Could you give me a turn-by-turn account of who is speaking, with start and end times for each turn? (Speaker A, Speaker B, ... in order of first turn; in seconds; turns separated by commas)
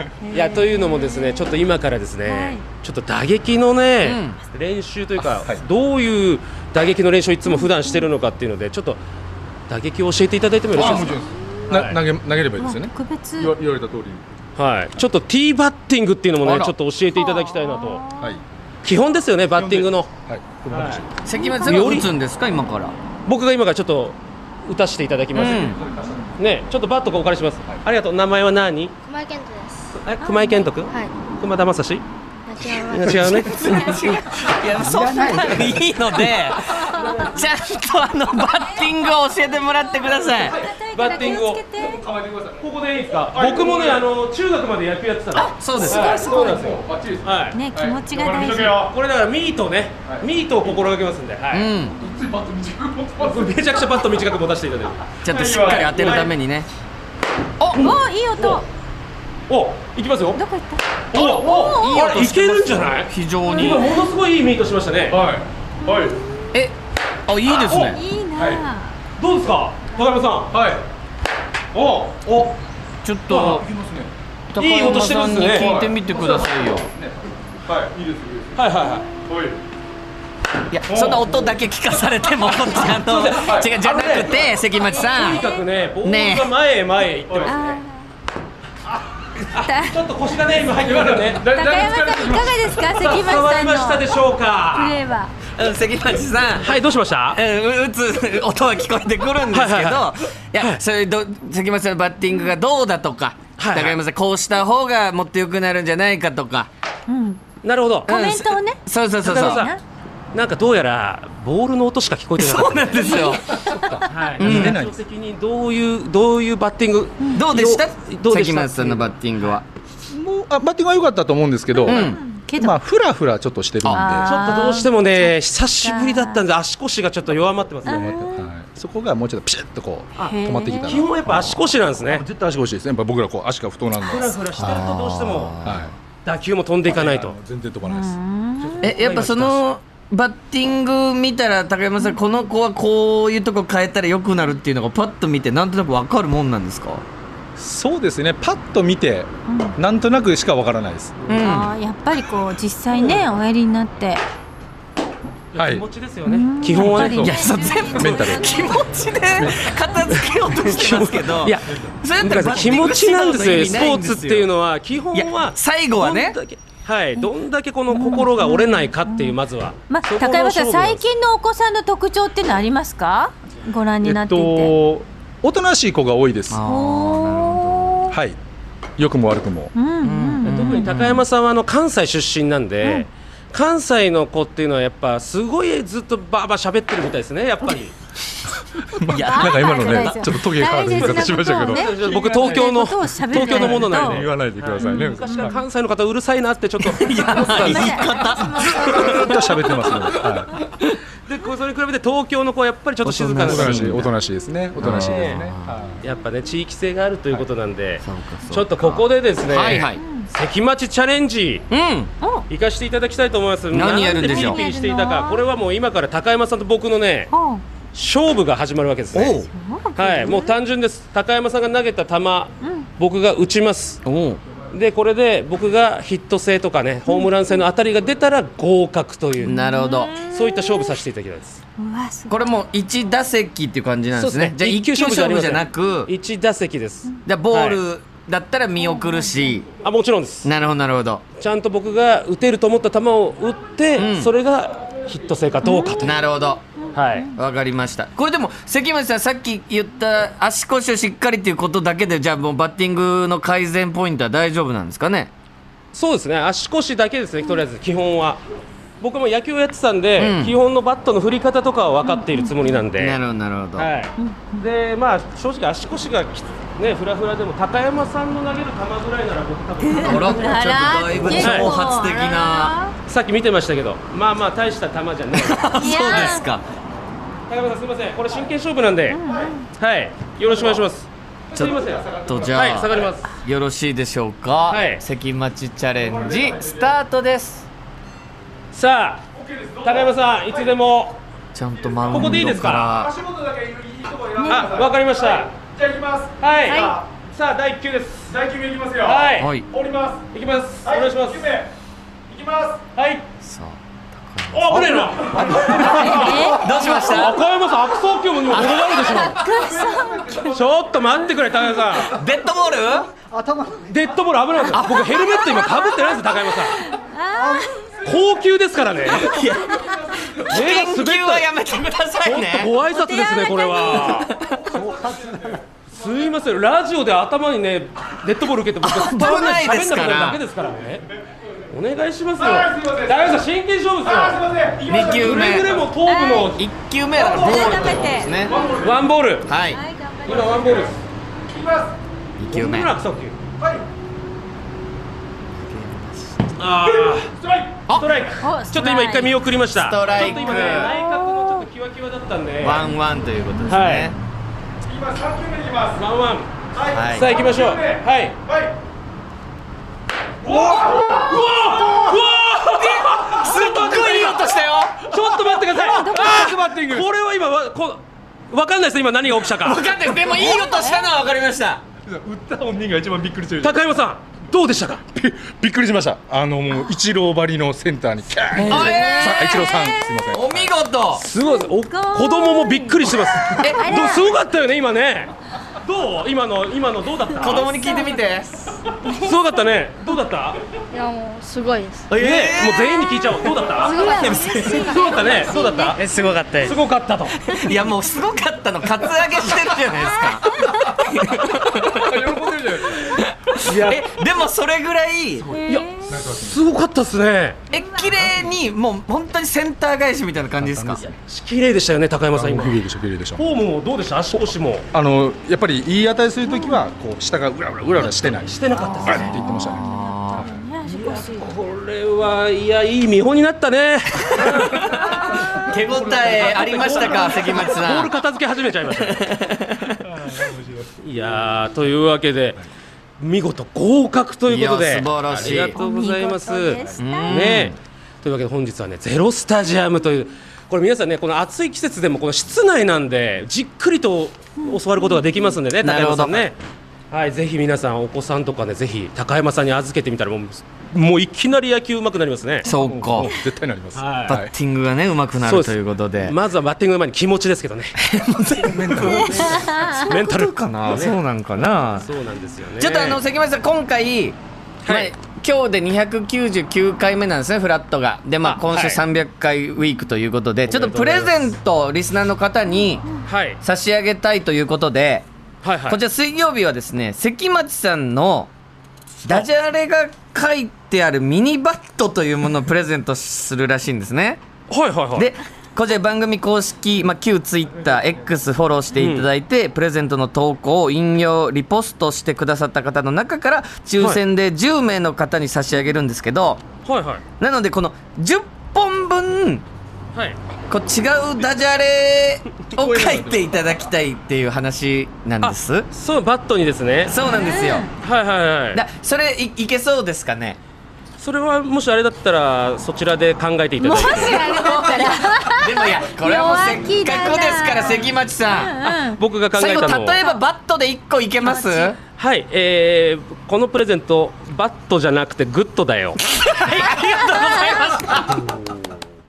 Speaker A: 0.2-1.6, Speaker B: 0.3-9.0, Speaker A: 2.2-2.6, Speaker C: 4.0-4.4, Speaker D: 5.2-5.6, Speaker A: 7.4-8.1, Speaker B: 9.7-12.0, Speaker D: 10.7-14.3, Speaker C: 10.7-11.0, Speaker A: 12.6-13.5, Speaker B: 14.6-18.0, Speaker C: 16.4-16.7, Speaker A: 17.1-18.4, Speaker B: 18.8-20.1, Speaker D: 19.5-21.2, Speaker B: 20.7-21.1, Speaker C: 21.2-22.9, Speaker A: 21.3-22.0, Speaker B: 21.6-22.1, Speaker B: 23.2-25.8, Speaker C: 25.3-25.8, Speaker D: 25.3-26.3, Speaker B: 26.4-28.9, Speaker E: 29.1-29.8, Speaker B: 30.0-32.0, Speaker A: 30.2-30.7, Speaker E: 32.5-33.2, Speaker B: 32.6-34.2, Speaker C: 32.7-40.6, Speaker D: 34.6-35.8, Speaker A: 35.3-35.6, Speaker A: 36.5-37.2, Speaker B: 36.9-37.4, Speaker A: 38.4-42.0, Speaker D: 40.4-40.7, Speaker B: 40.9-41.6, Speaker D: 41.7-42.6, Speaker B: 42.6-47.6, Speaker D: 43.3-44.0, Speaker A: 45.3-46.7, Speaker C: 45.6-46.3, Speaker D: 46.0-48.9, Speaker A: 47.5-48.8, Speaker B: 48.8-51.7, Speaker D: 50.0-50.7, Speaker C: 51.5-52.0, Speaker D: 51.9-54.2, Speaker B: 53.2-55.0, Speaker C: 55.2-56.7, Speaker D: 55.2-56.2, Speaker B: 55.6-56.3, Speaker C: 57.6-57.9, Speaker A: 57.7-58.7, Speaker B: 57.7-58.6, Speaker B: 59.5-60.4, Speaker A: 60.3-62.1, Speaker B: 61.1-65.2, Speaker C: 61.6-63.9, Speaker A: 63.4-64.0, Speaker D: 65.1-66.2, Speaker A: 65.8-66.4, Speaker C: 67.3-68.0, Speaker B: 67.4-68.0, Speaker A: 67.8-69.0, Speaker D: 68.3-68.6, Speaker B: 69.2-70.5, Speaker D: 70.5-70.8, Speaker D: 71.7-72.5, Speaker C: 73.0-73.7, Speaker D: 73.2-74.1, Speaker C: 74.5-76.9, Speaker B: 74.5-75.8, Speaker D: 74.9-78.6, Speaker B: 78.5-79.1, Speaker D: 79.3-79.6, Speaker C: 80.7-85.4, Speaker D: 80.9-81.5, Speaker D: 82.7-83.7, Speaker B: 83.0-87.8, Speaker A: 84.9-85.6, Speaker C: 86.0-86.5, Speaker A: 87.4-87.8, Speaker A: 89.5-90.0, Speaker B: 89.5-91.5, Speaker D: 90.8-92.9, Speaker A: 91.5-94.1, Speaker B: 92.9-95.0, Speaker A: 94.7-95.3, Speaker C: 95.5-96.7, Speaker B: 96.6-97.4, Speaker C: 97.3-106.7, Speaker B: 99.5-100.8, Speaker B: 103.6-104.0, Speaker A: 107.1-107.4, Speaker B: 107.6-108.1, Speaker A: 108.1-109.8, Speaker C: 108.1-109.7, Speaker B: 109.2-109.8, Speaker B: 110.3-113.4, Speaker C: 112.4-113.5, Speaker D: 113.6-115.0, Speaker A: 113.7-114.3, Speaker B: 114.0-119.6, Speaker C: 114.4-114.8, Speaker C: 117.3-119.6, Speaker D: 120.1-124.4, Speaker A: 121.7-122.8, Speaker C: 121.8-122.2, Speaker A: 123.8-126.4, Speaker B: 124.2-128.1, Speaker A: 127.8-128.5, Speaker D: 127.8-134.8, Speaker A: 130.1-131.1, Speaker B: 130.2-132.2, Speaker B: 134.0-135.6, Speaker C: 134.5-135.9, Speaker D: 135.6-135.9, Speaker B: 136.2-137.4, Speaker D: 136.8-138.2, Speaker A: 137.8-138.9, Speaker B: 138.6-139.7, Speaker C: 138.8-147.0, Speaker D: 147.6-151.3, Speaker A: 149.5-149.8, Speaker C: 151.3-151.7, Speaker A: 151.4-154.2, Speaker B: 152.9-153.3, Speaker B: 155.5-157.3, Speaker D: 155.6-155.8, Speaker A: 156.2-158.9, Speaker D: 156.8-159.7, Speaker C: 157.1-164.5, Speaker B: 160.1-171.1, Speaker C: 165.1-166.4, Speaker A: 167.9-174.7, Speaker D: 174.0-176.6, Speaker C: 176.5-178.0, Speaker A: 176.6-178.1, Speaker D: 178.1-178.4, Speaker D: 179.0-179.7, Speaker A: 179.7-180.9, Speaker C: 180.0-181.2, Speaker B: 180.4-187.9, Speaker D: 188.8-195.6, Speaker C: 189.1-190.1, Speaker A: 189.1-194.3, Speaker B: 190.9-198.1, Speaker A: 194.8-195.5, Speaker C: 196.8-199.8, Speaker A: 197.3-199.9, Speaker D: 198.6-200.6, Speaker B: 201.2-204.0, Speaker C: 203.0-204.1, Speaker D: 203.2-206.0, Speaker C: 204.8-205.8, Speaker B: 204.8-205.5, Speaker B: 206.0-211.7, Speaker C: 208.0-210.0, Speaker A: 209.9-210.3, Speaker C: 211.7-212.1, Speaker A: 212.2-212.4, Speaker B: 212.5-217.3, Speaker C: 213.7-214.6, Speaker A: 214.1-215.4, Speaker A: 217.3-217.6, Speaker B: 217.9-224.0, Speaker C: 219.1-219.5, Speaker A: 219.5-220.6, Speaker A: 222.6-222.9, Speaker C: 224.0-224.4, Speaker B: 224.7-229.6, Speaker A: 227.1-227.6, Speaker C: 229.4-230.2, Speaker A: 229.4-231.0, Speaker B: 230.2-231.6, Speaker A: 231.8-232.6, Speaker C: 232.3-236.1, Speaker B: 234.1-237.8, Speaker C: 237.2-239.7, Speaker A: 238.9-239.3, Speaker B: 239.8-240.5, Speaker C: 240.4-241.2, Speaker B: 241.4-246.2, Speaker C: 243.9-244.3, Speaker A: 245.6-246.2, Speaker C: 246.0-246.6, Speaker B: 246.9-247.3, Speaker C: 247.3-255.3, Speaker B: 255.9-258.4, Speaker B: 259.0-263.2, Speaker C: 260.2-260.6, Speaker A: 262.0-262.8, Speaker C: 263.0-263.9, Speaker B: 263.8-270.6, Speaker A: 264.2-264.6, Speaker A: 269.8-272.9, Speaker C: 270.0-272.7, Speaker B: 271.1-271.7, Speaker B: 273.1-276.4, Speaker C: 275.3-276.6, Speaker A: 275.7-276.5, Speaker B: 277.5-279.2, Speaker A: 279.1-279.7, Speaker B: 279.8-283.3, Speaker C: 281.5-287.7, Speaker D: 281.5-282.6, Speaker B: 284.7-285.0, Speaker D: 286.0-286.9, Speaker B: 288.7-289.3, Speaker D: 289.3-290.7, Speaker B: 289.8-291.2, Speaker C: 291.5-293.2, Speaker D: 291.8-296.4, Speaker B: 292.1-293.0, Speaker A: 294.4-294.7, Speaker B: 294.4-295.5, Speaker B: 296.4-298.4, Speaker A: 296.7-297.0, Speaker D: 298.3-300.2, Speaker B: 299.0-299.5, Speaker C: 299.4-299.7, Speaker B: 300.3-301.7, Speaker D: 300.9-301.6, Speaker D: 302.3-302.8, Speaker B: 302.9-303.3, Speaker C: 303.4-305.0, Speaker B: 304.5-309.5, Speaker D: 304.7-307.0, Speaker A: 305.7-306.9, Speaker C: 305.9-307.4, Speaker C: 308.5-309.7, Speaker A: 308.9-310.4, Speaker D: 309.7-310.6, Speaker B: 310.3-312.2, Speaker C: 312.0-313.1, Speaker B: 313.8-316.8, Speaker C: 314.7-315.2, Speaker A: 314.9-318.0, Speaker B: 318.0-319.4, Speaker C: 319.0-322.7, Speaker B: 320.4-331.1, Speaker A: 322.9-324.2, Speaker C: 324.0-324.9, Speaker D: 324.7-325.5, Speaker C: 328.8-330.4, Speaker B: 331.7-336.6, Speaker D: 334.4-335.7, Speaker C: 334.9-335.7, Speaker A: 336.1-336.5, Speaker C: 336.5-338.6, Speaker A: 337.1-338.8, Speaker B: 337.2-337.8, Speaker D: 337.8-339.0, Speaker B: 338.7-339.5, Speaker C: 339.4-339.8, Speaker A: 339.5-340.9, Speaker B: 340.2-341.0, Speaker D: 341.5-341.9, Speaker C: 342.4-342.9, Speaker B: 342.5-343.4, Speaker C: 345.6-346.6, Speaker B: 346.6-347.3, Speaker B: 347.9-352.9, Speaker A: 348.4-349.4, Speaker C: 349.7-350.9, Speaker A: 350.2-351.6, Speaker C: 352.6-354.1, Speaker B: 353.7-354.1, Speaker D: 354.9-356.0, Speaker B: 355.9-358.4, Speaker D: 356.8-357.8, Speaker C: 356.9-357.3, Speaker B: 360.4-364.4, Speaker D: 360.4-361.1, Speaker C: 362.7-365.1, Speaker D: 363.6-364.3, Speaker B: 365.1-369.9, Speaker D: 365.1-367.1, Speaker A: 365.8-366.6, Speaker C: 369.6-371.8, Speaker D: 370.0-370.5, Speaker A: 370.3-371.1, Speaker D: 372.1-373.9, Speaker B: 373.6-375.0, Speaker D: 375.1-380.7, Speaker A: 378.5-380.0, Speaker B: 378.6-378.9, Speaker C: 378.6-381.2, Speaker B: 381.1-388.0, Speaker A: 381.4-384.3, Speaker C: 383.5-384.1, Speaker C: 387.3-388.8, Speaker A: 387.5-388.2, Speaker B: 389.0-390.6, Speaker E: 390.9-392.1, Speaker C: 392.1-392.9, Speaker B: 392.2-397.5, Speaker A: 392.7-396.1, Speaker C: 394.1-394.7, Speaker C: 395.9-396.8, Speaker C: 397.4-402.2, Speaker A: 399.9-401.0, Speaker D: 401.5-404.0, Speaker C: 403.0-405.5, Speaker D: 405.4-406.6, Speaker A: 405.5-406.1, Speaker B: 405.6-407.6, Speaker C: 407.7-411.0, Speaker D: 408.2-408.4, Speaker D: 410.6-411.2, Speaker B: 411.0-412.8, Speaker D: 412.3-413.4, Speaker B: 413.4-414.9, Speaker D: 414.3-420.6, Speaker A: 416.4-416.8, Speaker B: 418.0-419.4, Speaker A: 418.8-421.5, Speaker C: 419.5-420.5, Speaker B: 420.8-425.1, Speaker C: 424.4-428.1, Speaker B: 426.0-429.3, Speaker C: 428.9-430.2, Speaker D: 430.3-430.7, Speaker B: 431.0-432.6, Speaker B: 433.2-446.6, Speaker C: 434.5-435.8, Speaker A: 435.4-437.6, Speaker C: 437.0-437.8, Speaker A: 444.6-445.2, Speaker C: 445.8-446.5, Speaker B: 447.1-452.7, Speaker C: 452.6-453.3, Speaker D: 452.6-454.5, Speaker B: 453.9-454.4, Speaker C: 454.2-456.4, Speaker B: 455.4-458.0, Speaker C: 458.0-459.4, Speaker D: 458.6-459.8, Speaker B: 458.9-461.2, Speaker A: 459.5-460.0, Speaker C: 460.0-462.1, Speaker B: 461.9-463.2, Speaker C: 462.8-475.3, Speaker B: 464.8-465.1, Speaker B: 468.4-469.0, Speaker B: 470.7-471.5, Speaker B: 473.2-473.6, Speaker B: 475.6-476.0, Speaker C: 475.8-478.5, Speaker C: 479.2-484.4, Speaker B: 484.7-485.3, Speaker C: 485.1-496.6, Speaker B: 488.9-489.3, Speaker B: 496.8-497.2, Speaker C: 497.4-499.6, Speaker C: 500.7-505.9, Speaker D: 502.8-503.4, Speaker B: 505.4-507.2, Speaker C: 507.1-507.9, Speaker A: 507.2-507.9, Speaker B: 508.0-508.8, Speaker C: 508.7-510.6, Speaker B: 511.2-514.5, Speaker A: 513.8-519.2, Speaker C: 513.9-519.0, Speaker B: 519.1-520.2, Speaker C: 519.5-522.0, Speaker A: 521.4-522.0, Speaker B: 522.2-526.2, Speaker C: 526.4-528.2, Speaker A: 526.8-528.2